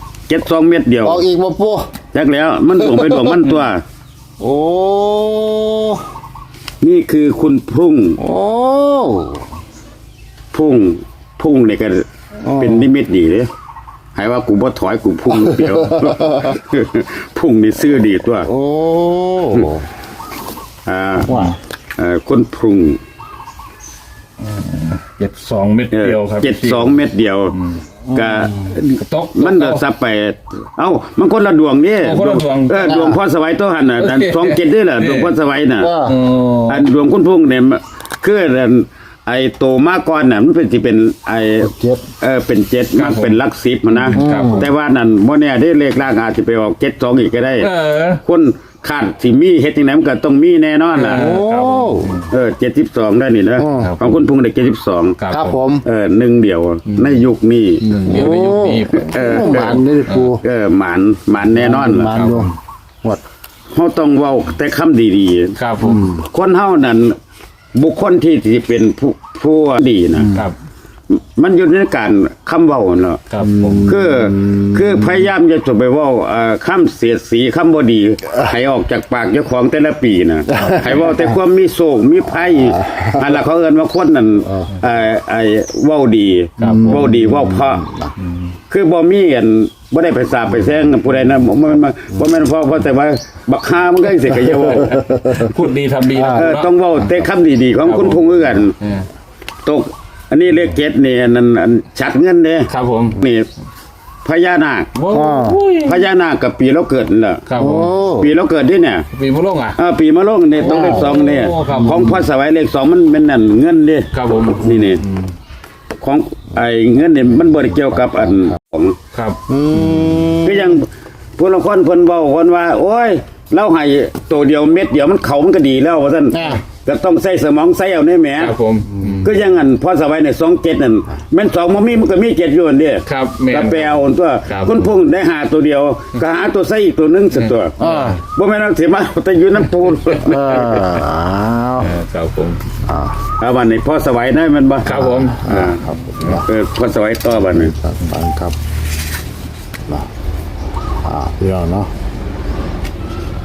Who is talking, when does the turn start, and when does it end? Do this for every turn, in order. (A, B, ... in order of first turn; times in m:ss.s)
0:00.3-0:01.2 A
0:01.0-0:01.9 B
0:02.1-0:03.8 A
0:02.8-0:03.4 B
0:04.4-0:06.0 B
0:06.8-0:08.2 A
0:08.2-0:09.5 B
0:10.5-0:13.5 A
0:12.4-0:12.9 B
0:14.1-0:18.5 A
0:15.3-0:16.5 B
0:18.4-0:19.8 B
0:20.8-0:21.4 A
0:21.2-0:21.6 B
0:21.3-0:21.5 C
0:22.0-0:23.0 A
0:24.4-0:27.0 C
0:25.9-0:27.6 A
0:28.1-0:28.7 B
0:28.1-0:36.0 A
0:28.9-0:29.8 C
0:32.0-0:33.0 C
0:32.8-0:33.2 B
0:34.0-0:35.3 C
0:35.8-0:36.2 B
0:36.0-0:36.8 C
0:36.7-0:47.7 A
0:41.6-0:42.0 B
0:42.9-0:44.7 C
0:44.1-0:44.7 B
0:47.6-0:48.2 C
0:48.2-0:51.3 A
0:50.9-0:52.3 C
0:51.1-0:52.2 B
0:52.3-0:55.2 A
0:53.6-0:54.0 B
0:53.7-0:54.2 C
0:55.2-0:55.6 C
0:55.3-0:55.8 B
0:55.8-0:57.9 A
0:56.8-0:57.2 C
0:57.8-1:00.3 C
0:58.0-1:00.4 B
0:58.9-0:59.8 A
1:00.4-1:02.2 A
1:01.5-1:03.2 B
1:02.0-1:02.5 C
1:03.7-1:05.6 A
1:05.6-1:06.1 C
1:05.8-1:06.2 B
1:06.2-1:07.2 A
1:07.7-1:10.3 A
1:10.2-1:10.4 B
1:11.1-1:13.2 A
1:13.3-1:13.9 C
1:13.4-1:15.1 B
1:13.8-1:27.9 A
1:22.7-1:23.2 B
1:24.4-1:24.7 B
1:26.6-1:27.1 C
1:26.6-1:28.1 B
1:28.2-1:28.5 C
1:28.7-1:35.1 A
1:34.6-1:35.5 B
1:35.3-1:36.7 C
1:36.1-1:36.6 B
1:36.3-1:38.7 A
1:37.8-1:39.1 C
1:39.6-1:43.5 A
1:42.7-1:43.2 C
1:44.2-1:44.9 A
1:44.9-1:46.0 C
1:45.1-1:45.6 B
1:45.8-1:47.4 A
1:47.5-1:47.9 C
1:47.5-1:48.3 B
1:48.2-1:49.1 A
1:49.1-1:49.8 C
1:49.8-1:54.1 A
1:50.6-1:52.2 C
1:50.6-1:52.2 B
1:54.1-1:55.2 C
1:54.6-1:55.0 A
1:56.0-1:59.0 A
1:59.1-2:00.1 C
1:59.5-2:00.8 B
2:00.4-2:08.5 A
2:06.3-2:06.6 B
2:08.4-2:09.3 C
2:09.2-2:17.7 A
2:13.0-2:14.9 C
2:17.3-2:18.2 C
2:17.8-2:18.2 B
2:18.3-2:20.8 A
2:20.2-2:21.9 B
2:21.8-2:22.6 C
2:22.8-2:23.2 B
2:23.4-2:24.9 A
2:24.8-2:25.4 C
2:24.8-2:26.5 B
2:25.5-2:25.8 A
2:26.4-2:27.7 A
2:27.3-2:28.5 B
2:31.0-2:31.9 B